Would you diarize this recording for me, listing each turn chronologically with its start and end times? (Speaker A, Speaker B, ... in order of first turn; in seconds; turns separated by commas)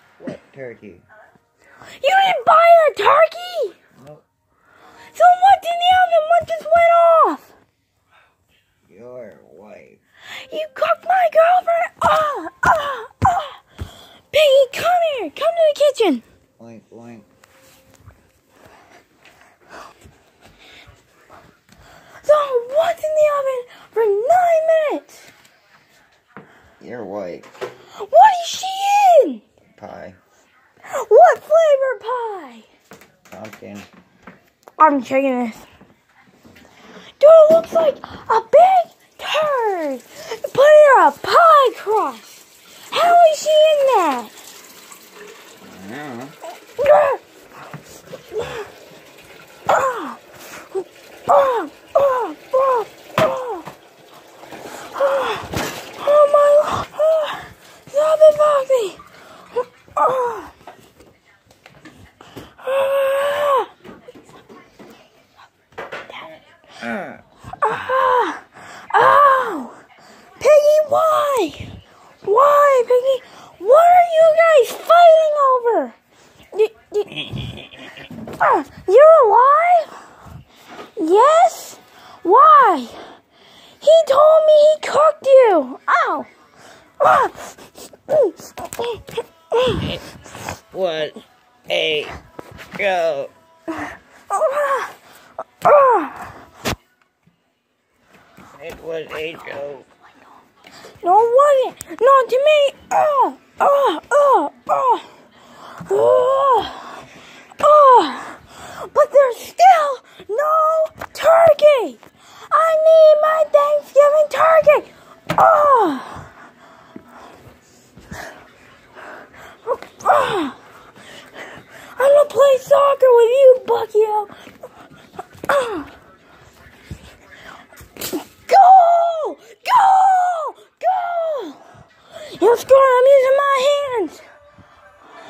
Speaker A: 0.2-1.1, Speaker B: 2.0-3.8, Speaker A: 4.0-4.2, Speaker B: 5.1-7.5, Speaker A: 8.8-10.0, Speaker B: 10.4-13.6, Speaker B: 14.3-16.2, Speaker A: 16.6-17.3, Speaker B: 22.2-25.3, Speaker A: 26.8-27.5, Speaker B: 27.9-29.4, Speaker A: 29.8-30.2, Speaker B: 30.9-32.7, Speaker A: 33.3-33.9, Speaker B: 34.8-35.6, Speaker B: 37.2-44.3, Speaker A: 45.6-46.4, Speaker B: 46.8-47.2, Speaker B: 48.3-48.6, Speaker B: 49.7-53.7, Speaker B: 54.9-59.0, Speaker B: 59.5-60.5, Speaker B: 62.6-63.7, Speaker B: 67.6-69.8, Speaker B: 70.4-76.0, Speaker B: 76.5-77.7, Speaker B: 78.2-80.0, Speaker B: 81.0-83.1, Speaker B: 83.8-86.3, Speaker B: 87.0-89.9, Speaker A: 90.7-92.2, Speaker A: 92.7-93.3, Speaker B: 94.3-94.9, Speaker B: 95.6-96.3, Speaker A: 98.5-99.9, Speaker B: 101.0-107.1, Speaker B: 107.6-116.3, Speaker B: 119.7-120.6, Speaker B: 122.0-124.3, Speaker B: 125.5-125.9, Speaker B: 128.2-131.6, Speaker B: 132.2-134.2